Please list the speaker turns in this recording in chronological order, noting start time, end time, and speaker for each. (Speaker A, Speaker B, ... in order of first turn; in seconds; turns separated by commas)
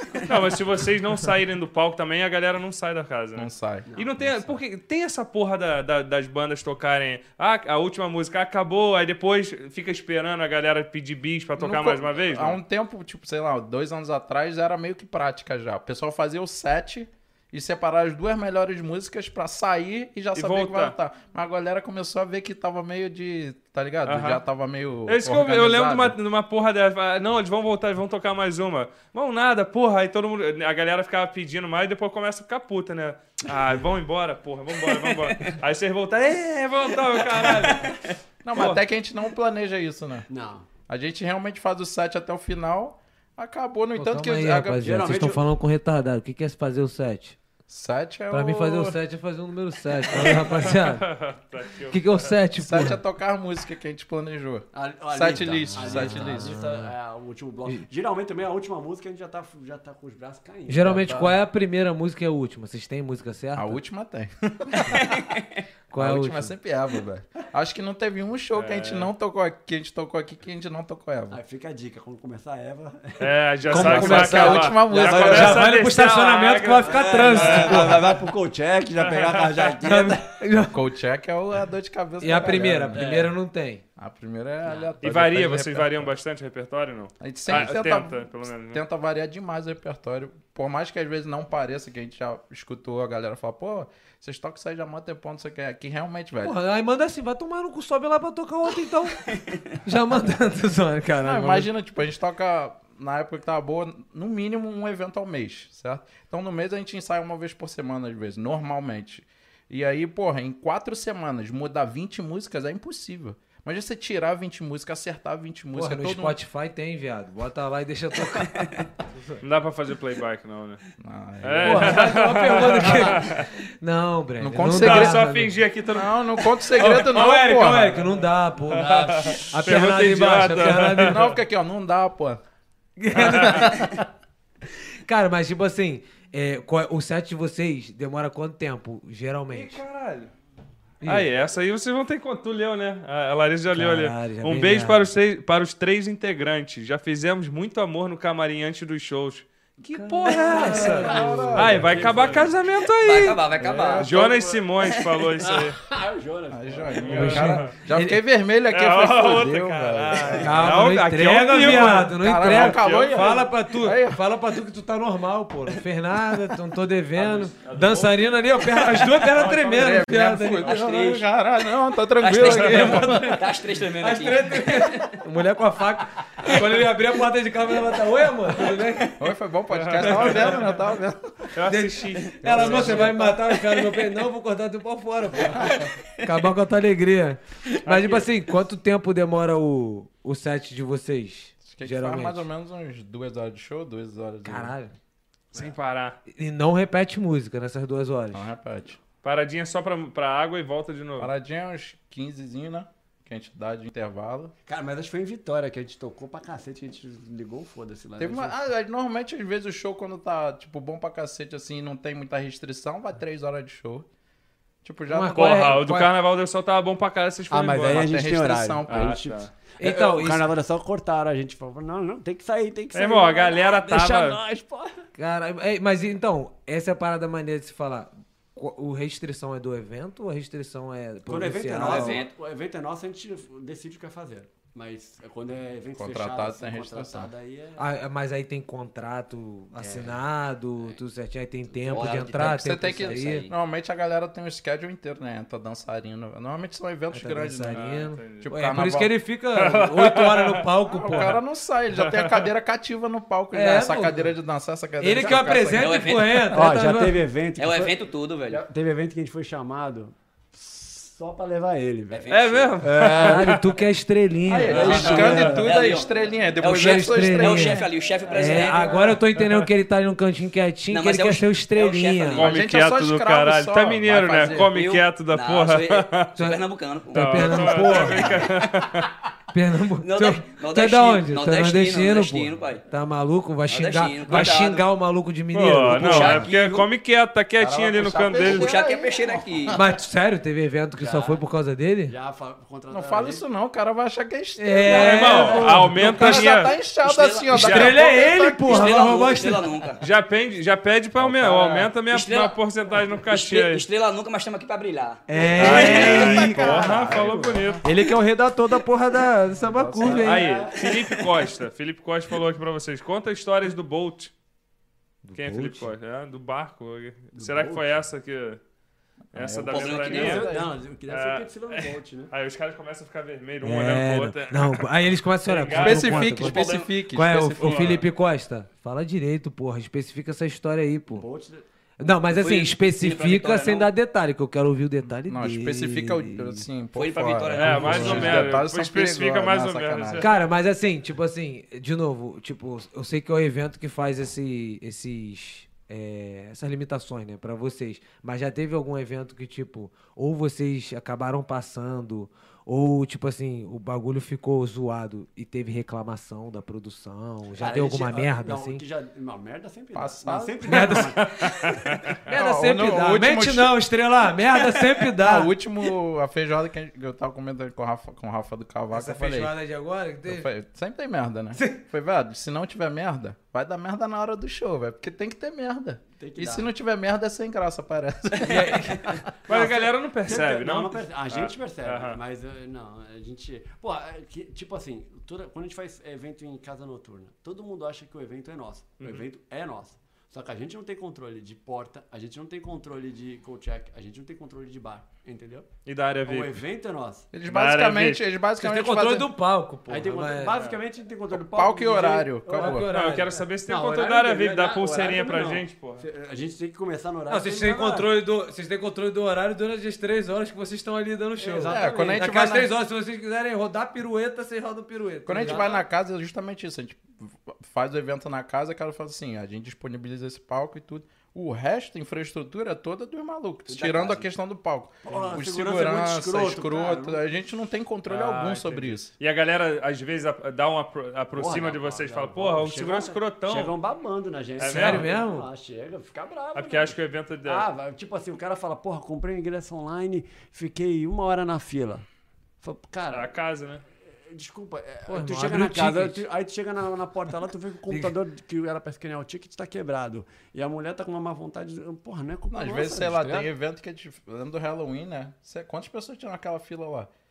Speaker A: 0.2-12.6, Speaker B: 3.4-4.6, Speaker B: 11.6-26.2, Speaker A: 20.3-20.9, Speaker A: 24.1-24.4, Speaker A: 25.1-38.8, Speaker C: 35.3-35.6, Speaker C: 37.6-38.1, Speaker B: 38.4-40.3, Speaker D: 40.3-40.7, Speaker B: 40.9-45.2, Speaker E: 44.0-47.4, Speaker D: 44.8-45.5, Speaker B: 47.7-49.0, Speaker E: 48.3-51.1, Speaker A: 50.1-52.3, Speaker E: 51.9-53.0, Speaker B: 52.6-56.6, Speaker D: 54.7-61.2, Speaker E: 55.8-56.9, Speaker E: 60.7-63.8, Speaker B: 61.0-61.3, Speaker B: 63.5-65.1, Speaker C: 64.9-65.6, Speaker E: 65.9-66.5, Speaker B: 65.9-71.4, Speaker A: 68.5-69.1, Speaker D: 71.3-73.3, Speaker A: 73.2-78.2, Speaker E: 73.7-78.2, Speaker B: 73.7-75.7, Speaker D: 74.9-75.6, Speaker D: 76.8-80.3, Speaker A: 79.0-79.7, Speaker E: 79.8-80.8, Speaker B: 80.7-83.2, Speaker E: 82.2-83.8, Speaker D: 82.9-83.3, Speaker B: 84.0-86.1, Speaker A: 85.0-88.8, Speaker B: 87.2-96.5, Speaker E: 96.4-101.7, Speaker B: 101.2-116.4, Speaker E: 115.7-118.7, Speaker A: 119.4-120.8, Speaker B: 121.0-122.1, Speaker A: 121.4-123.5, Speaker E: 121.6-125.5, Speaker B: 124.4-125.2, Speaker A: 124.7-127.1, Speaker B: 125.9-128.0, Speaker E: 126.8-131.3, Speaker A: 128.7-131.3, Speaker D: 128.7-129.6, Speaker B: 131.0-132.4, Speaker E: 133.0-133.9, Speaker B: 133.1-134.0, Speaker A: 133.2-133.7, Speaker E: 135.0-139.8, Speaker A: 139.5-140.3, Speaker E: 141.0-141.3, Speaker A: 141.0-153.4, Speaker E: 143.7-145.1, Speaker E: 149.9-151.8, Speaker D: 150.4-152.5, Speaker B: 150.6-152.4, Speaker C: 152.9-155.1, Speaker D: 153.6-154.7, Speaker B: 153.6-154.0, Speaker A: 154.0-155.8, Speaker D: 155.4-157.4, Speaker B: 156.5-160.7, Speaker A: 157.0-157.7, Speaker E: 157.1-158.2, Speaker A: 158.7-163.3, Speaker E: 160.4-171.2, Speaker B: 161.8-164.2, Speaker A: 167.2-170.0, Speaker B: 169.3-173.5, Speaker C: 170.8-171.2, Speaker C: 172.2-175.2, Speaker E: 172.3-179.2, Speaker B: 179.2-181.5, Speaker A: 179.7-180.7, Speaker E: 180.2-180.5, Speaker A: 181.6-183.2, Speaker E: 181.7-192.5, Speaker C: 182.4-183.9, Speaker B: 182.6-183.1, Speaker A: 187.8-188.3, Speaker B: 191.6-194.7, Speaker E: 194.4-194.9, Speaker A: 195.5-196.2, Speaker E: 196.3-198.5, Speaker B: 198.3-199.0, Speaker A: 199.2-201.3, Speaker B: 201.2-204.5, Speaker D: 204.7-208.5, Speaker B: 208.2-214.1, Speaker B: 214.8-215.7, Speaker E: 215.1-216.1, Speaker A: 215.3-218.2, Speaker D: 217.5-225.0, Speaker B: 217.8-219.2, Speaker A: 218.9-219.5, Speaker E: 219.8-220.5, Speaker A: 222.9-224.4, Speaker E: 225.2-232.2, Speaker D: 231.3-237.9, Speaker C: 231.7-232.3, Speaker B: 235.9-237.3, Speaker E: 237.8-243.5, Speaker D: 239.8-240.2, Speaker D: 241.7-242.1, Speaker C: 241.9-243.5, Speaker B: 242.3-249.1, Speaker E: 247.1-251.4, Speaker A: 247.7-248.5, Speaker A: 249.5-251.3, Speaker B: 250.8-255.9, Speaker A: 251.9-252.5, Speaker E: 253.5-254.3, Speaker E: 255.0-257.2, Speaker D: 255.1-255.7, Speaker C: 255.7-256.5, Speaker D: 256.5-263.6, Speaker C: 257.6-258.6, Speaker C: 262.1-262.9, Speaker A: 262.3-263.6, Speaker E: 263.0-265.4, Speaker B: 264.5-267.9, Speaker D: 264.5-266.1, Speaker A: 264.7-265.4, Speaker C: 264.7-269.2, Speaker E: 266.6-272.5, Speaker D: 268.2-269.2, Speaker A: 269.4-269.6, Speaker C: 270.9-272.6, Speaker A: 272.3-276.3, Speaker B: 272.3-274.7, Speaker C: 274.7-278.9, Speaker E: 276.4-278.3, Speaker A: 277.1-279.1, Speaker E: 279.5-286.5, Speaker C: 280.0-282.8, Speaker C: 283.7-284.9, Speaker A: 285.5-288.7, Speaker C: 286.0-286.8, Speaker B: 287.6-289.8, Speaker C: 288.4-289.8, Speaker E: 289.7-292.1, Speaker D: 291.0-291.4, Speaker D: 292.1-293.4, Speaker B: 292.9-299.0, Speaker E: 294.6-296.4, Speaker A: 294.9-296.7, Speaker C: 297.0-298.1, Speaker A: 297.5-297.9, Speaker E: 297.5-299.7, Speaker C: 298.6-300.0, Speaker A: 300.0-303.8, Speaker B: 301.2-301.9, Speaker C: 302.0-302.6, Speaker C: 303.2-306.3, Speaker E: 305.3-307.2, Speaker A: 305.6-307.8, Speaker B: 305.6-307.8, Speaker D: 305.7-307.6, Speaker E: 307.8-310.5, Speaker D: 309.6-310.9, Speaker A: 310.2-314.3, Speaker C: 310.8-311.1, Speaker E: 315.2-315.9, Speaker A: 315.3-318.6, Speaker D: 317.3-317.9, Speaker A: 319.3-320.5, Speaker B: 319.3-320.7, Speaker C: 319.6-320.5, Speaker D: 320.0-322.3, Speaker A: 321.1-324.9, Speaker E: 323.6-331.2, Speaker A: 325.4-326.7, Speaker B: 325.7-328.0, Speaker C: 326.4-326.9, Speaker A: 327.6-328.0, Speaker D: 331.1-331.6, Speaker E: 332.0-336.6, Speaker C: 332.3-333.9, Speaker B: 335.2-340.3, Speaker C: 336.9-338.6, Speaker A: 337.5-340.3, Speaker E: 337.6-338.4, Speaker E: 340.2-358.8, Speaker D: 357.5-361.9, Speaker B: 359.9-361.0, Speaker E: 360.7-361.2, Speaker A: 361.2-362.1, Speaker E: 362.2-365.5, Speaker B: 362.3-363.8, Speaker B: 365.0-369.5, Speaker E: 368.9-370.5, Speaker B: 370.3-379.2, Speaker E: 371.5-371.8, Speaker D: 376.2-376.7, Speaker E: 378.4-379.2, Speaker A: 379.5-382.2, Speaker D: 379.5-395.7, Speaker A: 395.9-396.6, Speaker D: 396.2-397.3, Speaker B: 397.3-399.3, Speaker A: 397.4-398.2, Speaker E: 398.6-400.6, Speaker D: 399.9-402.9, Speaker B: 401.3-402.9, Speaker E: 402.5-403.4, Speaker A: 402.9-406.1, Speaker D: 403.6-408.1, Speaker E: 407.3-415.7, Speaker D: 411.4-412.3, Speaker B: 411.6-412.7, Speaker B: 415.2-429.1, Speaker D: 415.4-415.8, Speaker D: 423.7-424.3, Speaker D: 425.0-427.3, Speaker A: 428.1-433.7, Speaker D: 431.4-442.0, Speaker A: 434.6-435.1, Speaker E: 434.6-435.5, Speaker A: 436.5-437.7, Speaker D: 442.6-443.3, Speaker A: 443.1-443.8, Speaker D: 444.2-453.5, Speaker E: 445.1-446.2, Speaker E: 447.9-448.1, Speaker B: 452.5-457.1